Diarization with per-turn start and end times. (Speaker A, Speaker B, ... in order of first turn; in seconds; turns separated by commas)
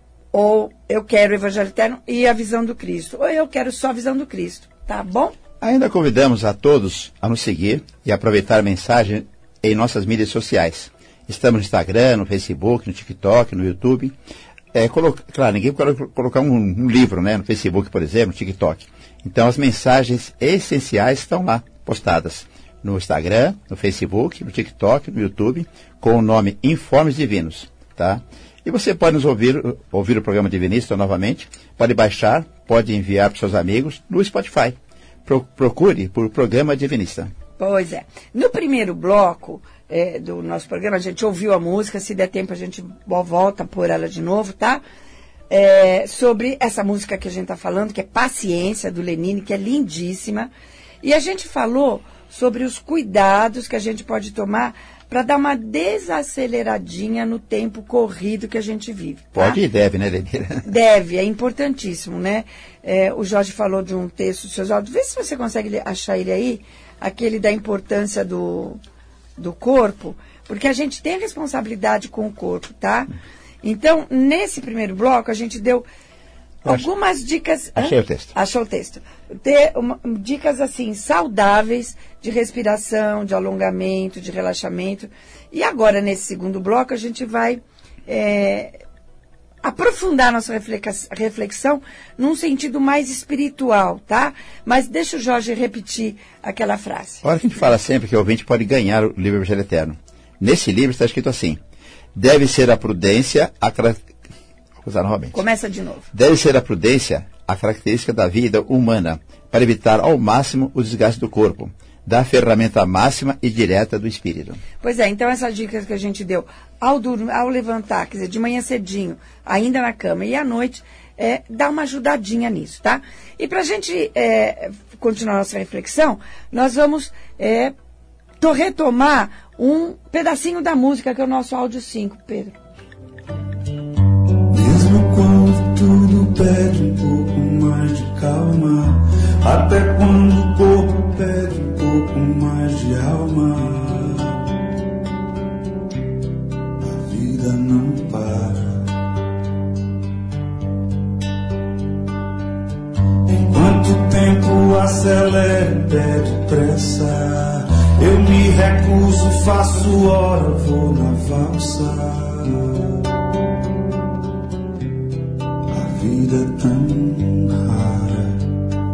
Speaker A: 0.3-5.3, Speaker B: 5.6-14.1, Speaker B: 14.7-37.3, Speaker A: 37.6-44.8, Speaker A: 45.5-50.5, Speaker A: 51.0-59.6, Speaker B: 59.3-60.6, Speaker A: 60.6-68.8, Speaker A: 69.4-73.1, Speaker A: 73.6-75.8, Speaker A: 76.6-88.8, Speaker B: 77.8-78.3, Speaker A: 89.6-97.2, Speaker B: 97.2-101.6, Speaker B: 102.1-104.0, Speaker B: 104.8-105.4, Speaker A: 105.3-106.1, Speaker B: 106.1-114.6, Speaker A: 114.8-127.7, Speaker A: 128.4-132.5, Speaker C: 134.5-144.4, Speaker C: 146.8-148.9, Speaker C: 153.3-163.0, Speaker C: 165.7-168.5